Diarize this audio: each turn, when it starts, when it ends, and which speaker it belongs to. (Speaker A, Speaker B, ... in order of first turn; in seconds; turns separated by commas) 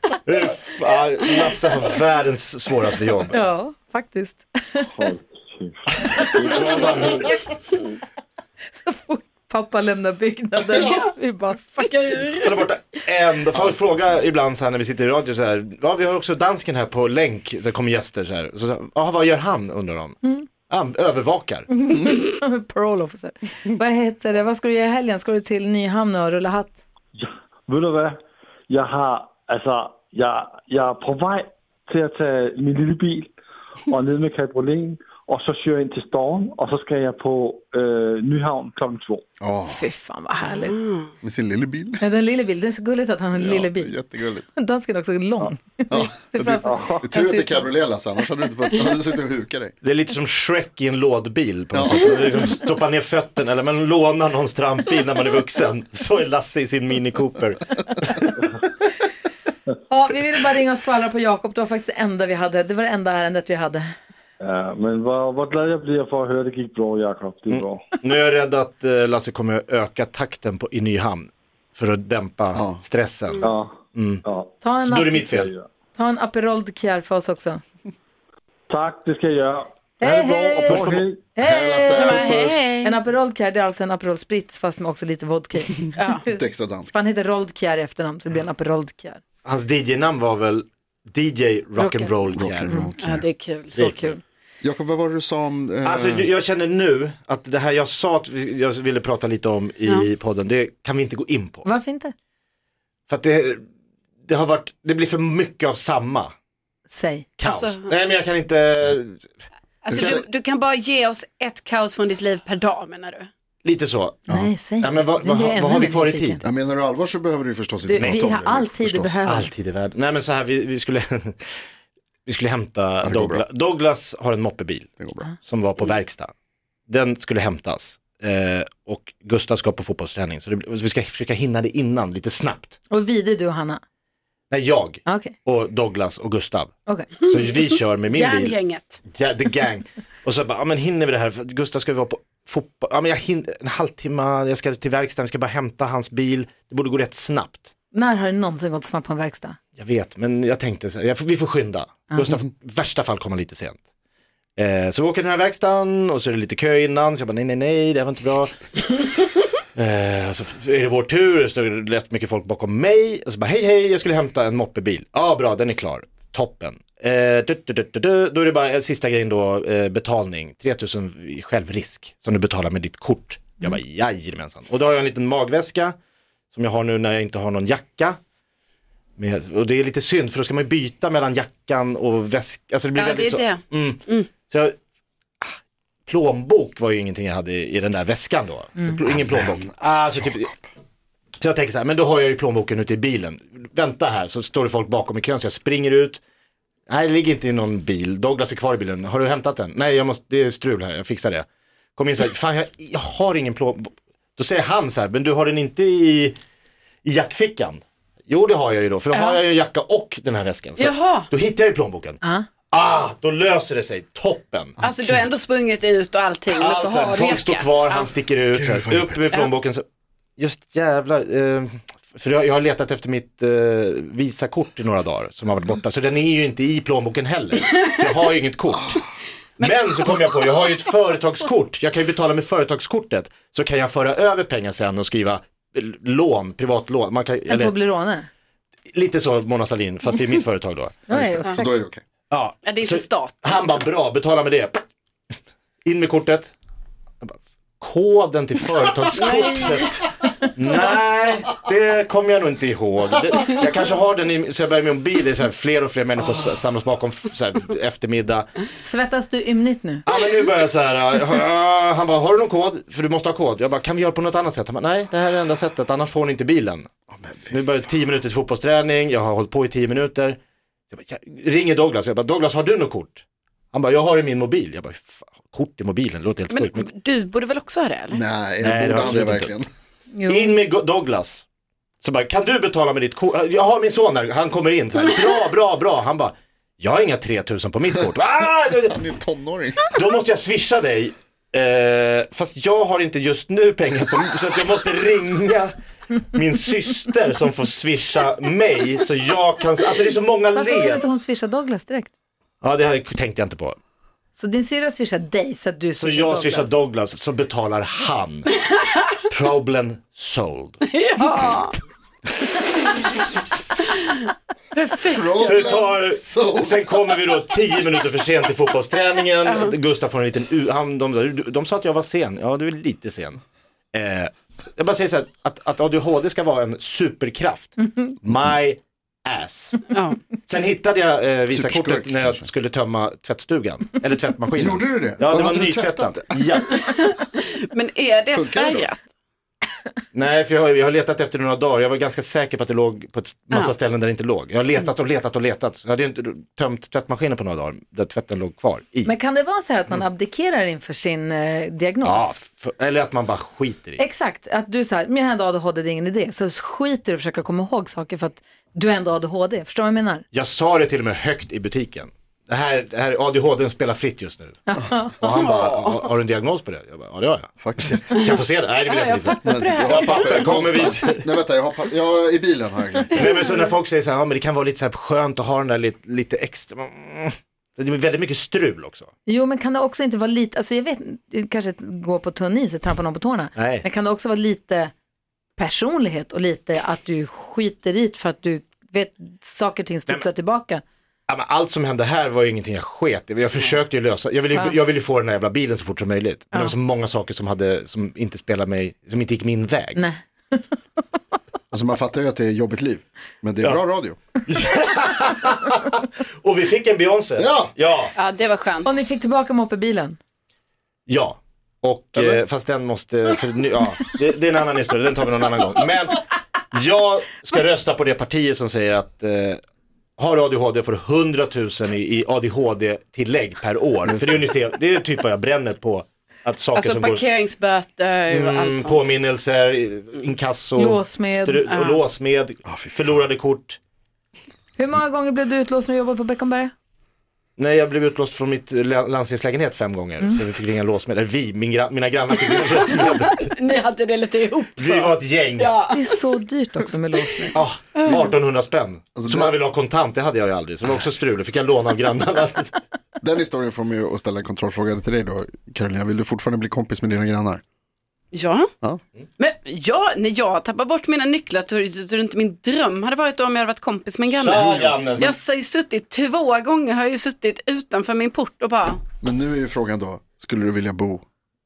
Speaker A: 0.2-3.4, Speaker B: 3.3-4.9, Speaker C: 4.9-7.4, Speaker B: 6.2-6.9, Speaker B: 8.8-12.2, Speaker D: 11.8-12.5, Speaker A: 12.4-21.7, Speaker B: 21.7-26.8, Speaker C: 27.2-28.2, Speaker C: 28.7-33.3, Speaker C: 33.9-39.2, Speaker E: 39.4-39.9, Speaker B: 39.7-40.9, Speaker D: 40.6-41.1, Speaker E: 41.2-42.0, Speaker B: 42.0-44.0, Speaker E: 43.4-44.5, Speaker B: 44.5-47.7, Speaker E: 45.9-49.7, Speaker C: 46.6-47.1, Speaker A: 49.8-57.9, Speaker E: 51.7-52.1, Speaker B: 59.9-63.9, Speaker C: 64.4-67.8, Speaker A: 67.5-74.2, Speaker E: 72.5-72.8, Speaker C: 73.4-74.5, Speaker B: 74.6-75.3, Speaker A: 74.8-75.5, Speaker C: 75.2-75.7, Speaker B: 75.9-77.6, Speaker C: 78.7-81.3, Speaker B: 80.0-86.4, Speaker A: 80.7-81.0, Speaker E: 81.4-82.7, Speaker D: 81.9-83.0, Speaker D: 86.0-86.2, Speaker E: 86.2-87.0, Speaker B: 86.9-89.2, Speaker A: 89.5-92.8, Speaker B: 91.8-92.2, Speaker E: 92.4-93.3, Speaker B: 92.7-92.9, Speaker D: 93.0-93.8, Speaker A: 93.7-94.1, Speaker B: 93.8-94.2, Speaker E: 94.6-96.3, Speaker A: 95.8-101.7, Speaker B: 101.7-102.1, Speaker A: 103.1-103.6, Speaker A: 104.3-106.3, Speaker B: 106.9-107.3, Speaker A: 107.4-109.3, Speaker D: 107.4-107.9, Speaker D: 109.8-113.3, Speaker A: 109.9-110.2, Speaker E: 109.9-110.2, Speaker A: 113.6-116.4, Speaker B: 114.3-116.4, Speaker E: 116.4-119.2, Speaker B: 117.9-119.5, Speaker A: 118.0-118.2, Speaker A: 119.2-121.5, Speaker A: 122.3-126.3, Speaker E: 123.0-123.5, Speaker E: 125.0-125.3, Speaker A: 126.9-132.8, Speaker B: 132.9-133.8, Speaker A: 134.5-147.7, Speaker B: 135.1-135.4, Speaker D: 138.1-139.0, Speaker B: 147.9-149.6, Speaker A: 149.8-153.8, Speaker B: 152.1-152.4, Speaker A: 154.6-176.0, Speaker A: 176.5-178.2, Speaker A: 179.2-184.8, Speaker D: 182.9-184.3, Speaker A: 186.1-190.5, Speaker E: 189.1-190.7, Speaker A: 191.4-196.2, Speaker A: 196.9-201.4, Speaker A: 202.0-206.3, Speaker A: 207.0-214.8, Speaker D: 209.1-209.4, Speaker D: 210.8-211.3, Speaker B: 212.2-212.5, Speaker E: 214.8-215.3, Speaker D: 214.8-218.1, Speaker A: 216.5-219.8, Speaker E: 218.5-219.3, Speaker A: 220.4-229.0, Speaker A: 229.6-237.8, Speaker D: 229.6-230.7, Speaker B: 237.5-238.3, Speaker A: 238.9-241.0, Speaker B: 241.1-241.8, Speaker E: 241.1-242.0, Speaker A: 242.3-244.8, Speaker D: 242.6-243.9, Speaker A: 245.8-246.5, Speaker A: 247.2-258.6, Speaker D: 249.2-249.9, Speaker B: 258.8-260.1, Speaker A: 260.1-266.9, Speaker E: 267.1-267.6, Speaker A: 267.5-270.4, Speaker A: 270.9-276.9, Speaker D: 276.5-278.2, Speaker E: 278.1-279.7, Speaker A: 278.6-279.6, Speaker B: 280.1-280.6, Speaker A: 280.3-281.5, Speaker A: 282.0-289.0, Speaker E: 288.9-289.9, Speaker A: 289.8-301.0, Speaker B: 300.5-302.1, Speaker A: 302.6-303.8, Speaker B: 304.4-306.7, Speaker A: 306.0-308.6, Speaker A: 309.3-310.8, Speaker D: 310.9-311.7, Speaker D: 314.7-315.6, Speaker E: 315.1-316.9, Speaker A: 315.4-323.4, Speaker D: 319.5-319.8, Speaker A: 323.9-329.9, Speaker D: 329.9-330.2, Speaker A: 330.5-336.8, Speaker E: 331.5-332.4, Speaker E: 334.6-336.6, Speaker D: 336.8-339.0, Speaker E: 338.3-338.9, Speaker A: 340.1-349.1, Speaker B: 349.1-352.4, Speaker A: 352.0-354.0, Speaker B: 354.0-360.2, Speaker A: 360.3-364.6, Speaker B: 364.7-365.2, Speaker A: 365.2-371.3, Speaker D: 365.3-366.1, Speaker E: 367.6-368.3, Speaker D: 368.1-370.7, Speaker E: 369.4-373.4, Speaker A: 373.1-379.1, Speaker B: 379.3-384.9, Speaker A: 383.6-383.9, Speaker B: 385.6-390.8, Speaker A: 391.3-400.0, Speaker B: 399.9-400.7, Speaker E: 401.7-404.2, Speaker A: 404.5-408.1, Speaker E: 407.4-407.7, Speaker D: 408.2-408.9, Speaker B: 408.8-410.2, Speaker A: 411.1-419.6, Speaker E: 412.2-412.4, Speaker A: 420.2-427.3, Speaker E: 424.0-424.5, Speaker D: 426.8-429.1, Speaker A: 428.3-433.8, Speaker B: 430.8-431.8, Speaker D: 431.7-432.0, Speaker E: 432.7-433.1, Speaker B: 434.8-436.7, Speaker A: 437.6-443.6, Speaker D: 442.4-446.2, Speaker A: 444.8-445.7, Speaker B: 445.9-447.6, Speaker A: 447.5-452.8, Speaker D: 448.0-448.3, Speaker E: 449.2-449.6, Speaker E: 453.2-457.6, Speaker D: 458.3-458.7, Speaker D: 459.4-469.0, Speaker A: 464.4-465.3, Speaker E: 464.5-465.3, Speaker E: 469.2-471.2